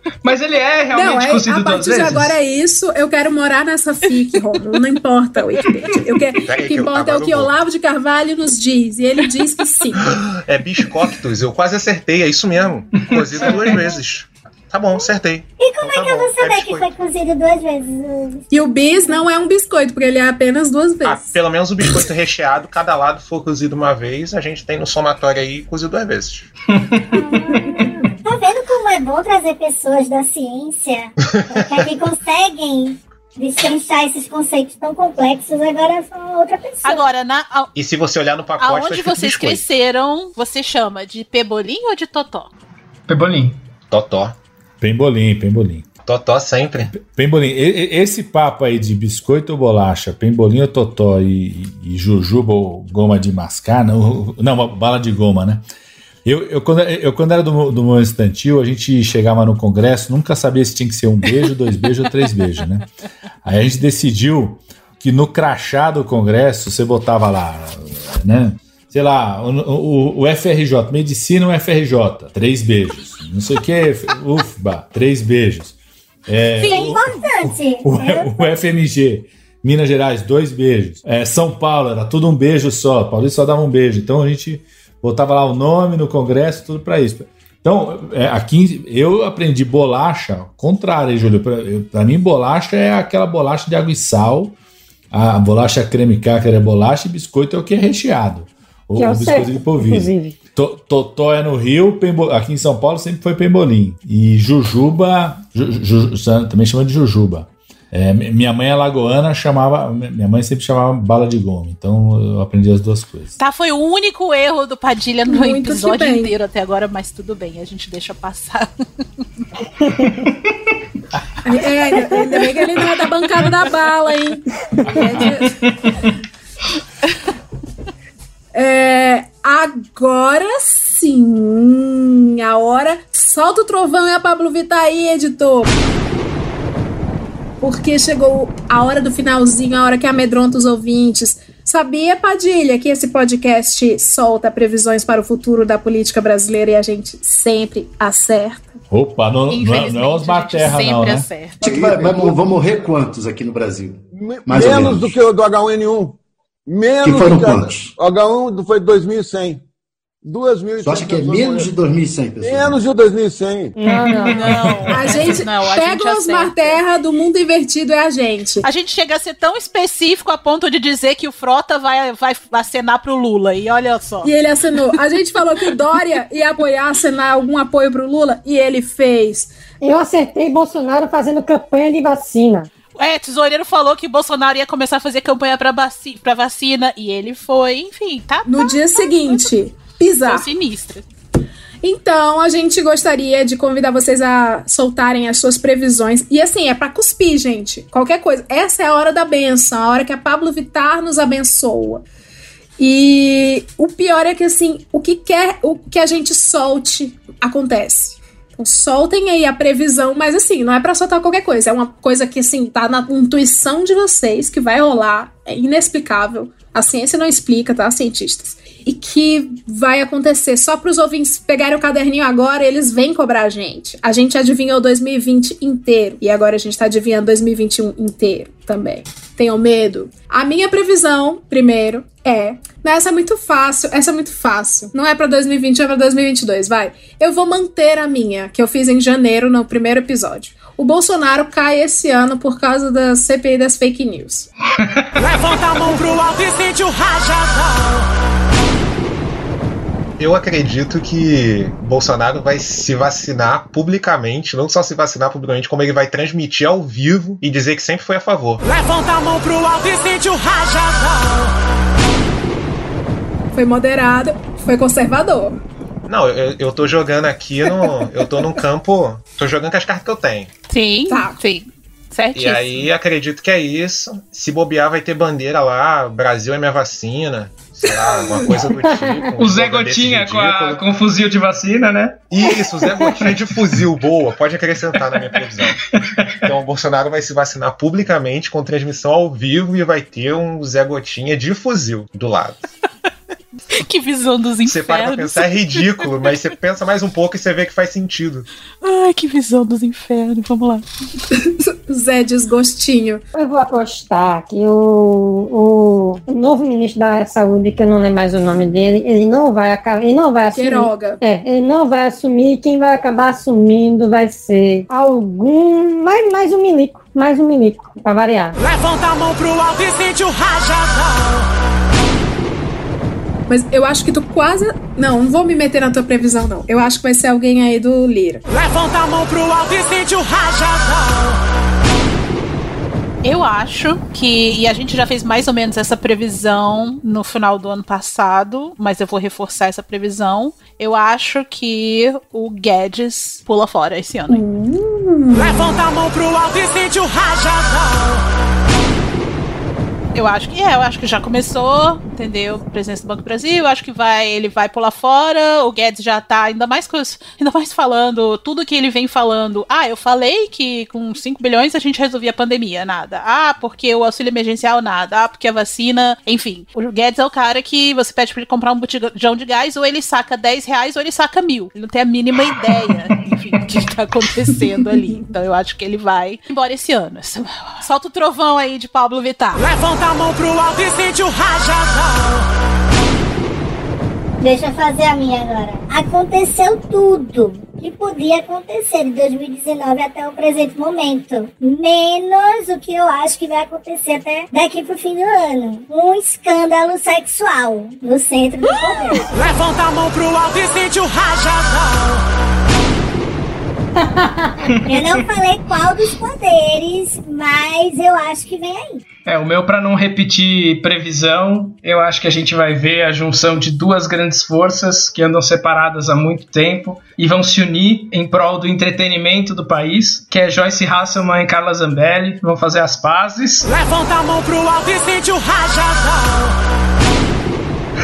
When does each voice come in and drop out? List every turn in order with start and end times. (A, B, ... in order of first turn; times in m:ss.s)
0:00.2-0:02.4 A
0:00.9-0:10.1 B
0:06.4-0:07.5 C
0:10.0-0:16.9 C
0:13.0-0:13.8 A
0:15.6-0:18.4 D
0:18.5-0:21.3 B
0:21.0-0:26.5 C
0:26.7-0:27.3 A
0:27.1-0:37.1 D
0:36.8-0:37.7 E
0:37.8-0:39.7 C
0:38.6-0:42.5 E
0:43.1-0:43.6 A
0:43.9-0:44.4 C
0:44.8-0:45.9 F
0:46.0-0:46.9 C
0:46.9-0:55.6 F
0:56.2-1:02.9 F
1:03.4-1:15.8 F
1:16.3-1:34.6 F
1:16.6-1:17.1 E
1:16.6-1:18.4 D
1:35.1-1:53.4 F
1:39.0-1:40.4 G
1:53.4-1:58.7 E
1:55.3-1:56.3 B
2:01.4-2:05.6 B
2:05.2-2:06.0 A
2:08.5-2:15.7 B
2:17.6-2:28.7 B
2:28.9-2:31.3 F
2:29.5-2:31.6 E
2:31.6-2:35.2 H
2:31.6-2:32.9 I
2:34.2-2:39.6 I
2:37.0-2:37.9 H
2:40.2-2:41.8 I
2:40.8-2:42.8 H
2:42.4-2:43.8 I
2:43.8-2:44.4 G
2:44.3-2:46.8 E
2:44.9-2:48.7 B
2:48.6-2:54.3 E
2:54.2-2:59.5 B
2:59.8-3:02.7 G
3:03.0-3:09.5 E
3:08.5-3:10.5 B
3:10.2-3:11.0 E
3:11.8-3:22.0 B
3:22.8-4:04.5 B
4:05.2-4:08.1 J
4:10.2-4:18.6 C
4:18.6-4:21.5 J
4:23.5-4:25.6 B
4:26.1-4:30.5 C
4:30.7-4:32.9 E
4:31.1-4:31.4 B
4:32.4-4:40.8 C
4:39.4-4:42.2 A
4:42.3-4:45.8 C
4:43.2-4:43.5 A
4:45.2-4:46.5 A
4:46.4-4:52.6 C
4:53.8-4:56.1 E
4:54.7-4:58.5 C
4:58.8-5:00.8 E
5:01.4-5:03.2 B
5:03.4-5:18.6 G
5:10.5-5:11.2 B
5:18.6-5:21.5 J
5:23.5-5:28.4 B
5:28.5-5:31.4 J
5:33.2-5:44.4 E
5:44.3-5:45.9 B
5:45.3-5:48.2 J
5:50.2-6:19.6 E
6:19.6-6:22.5 J
6:24.4-6:39.3 D
6:39.3-6:42.2 J
6:44.0-6:44.5 G
6:44.6-6:45.2 A
6:44.9-6:49.0 D
6:49.3-7:03.7 A
7:03.6-7:06.6 J